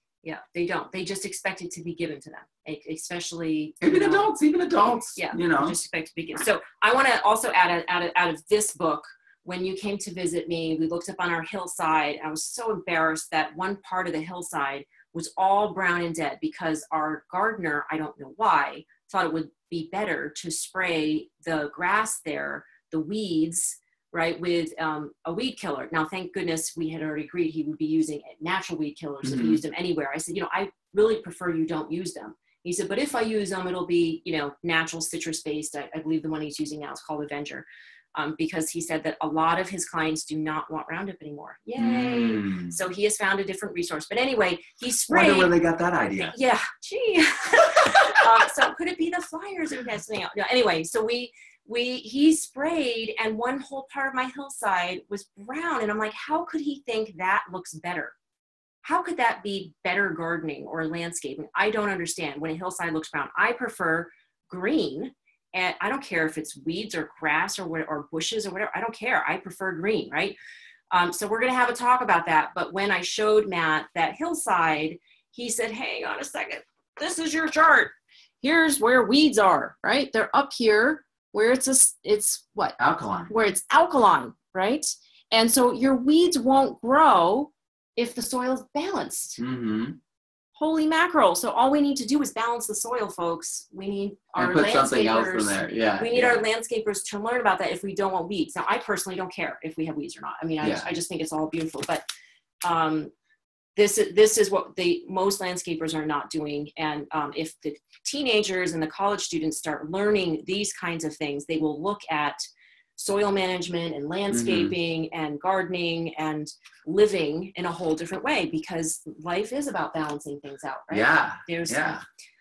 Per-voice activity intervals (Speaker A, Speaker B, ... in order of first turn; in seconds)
Speaker A: 0.2-4.3, 5.2-45.5, 46.2-58.1, 58.8-70.4, 70.9-82.8, 83.3-89.4, 90.6-102.0, 102.6-103.1, 103.8-112.4, 113.0-122.0
Speaker B: 3.8-5.8, 29.2-29.6, 41.8-42.8, 45.1-46.4, 47.9-48.2, 82.8-83.3, 89.4-90.0, 94.4-96.4, 100.6-100.9, 114.3-114.7, 120.9-122.0